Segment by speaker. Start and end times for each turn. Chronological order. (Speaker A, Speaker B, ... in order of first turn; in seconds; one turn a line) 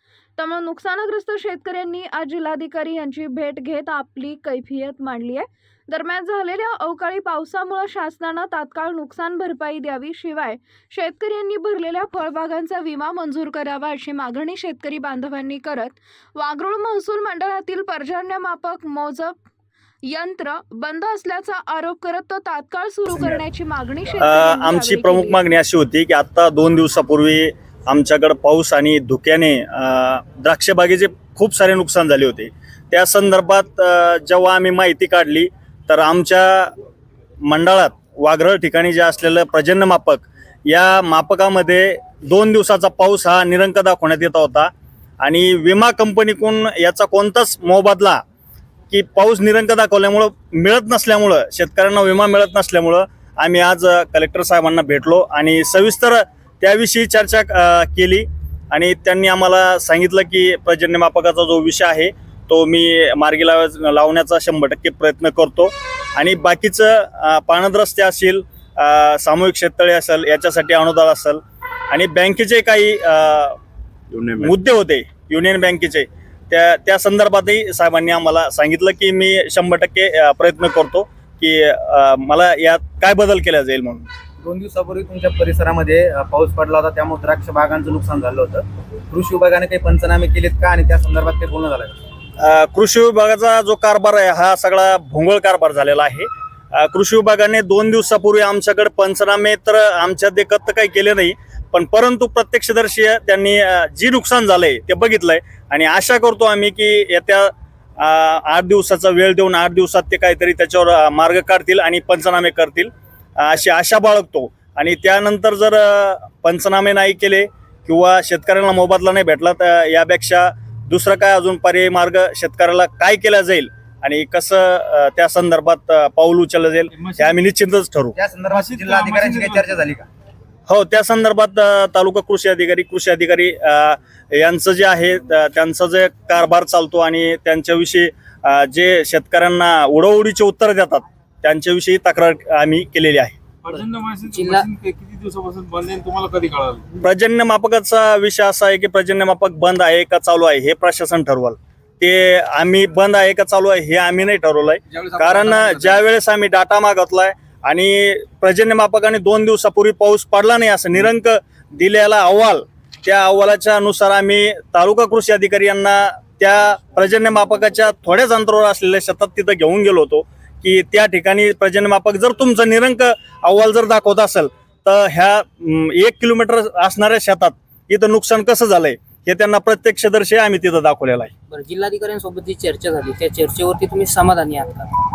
Speaker A: 0.4-19.4
Speaker A: 20.0-25.4
Speaker B: 24.2-36.7
Speaker B: 37.4-44.7
Speaker B: 45.2-48.2
Speaker B: 48.9-73.6
Speaker B: 74.4-84.1
Speaker C: 84.4-92.0
Speaker B: 92.4-128.2
Speaker D: 127.0-127.3
Speaker C: 128.2-130.1
Speaker D: 128.5-129.8
Speaker B: 130.7-143.4
Speaker D: 143.6-146.9
Speaker E: 143.7-144.7
Speaker B: 147.0-181.3
Speaker D: 154.9-156.0
Speaker E: 181.5-184.9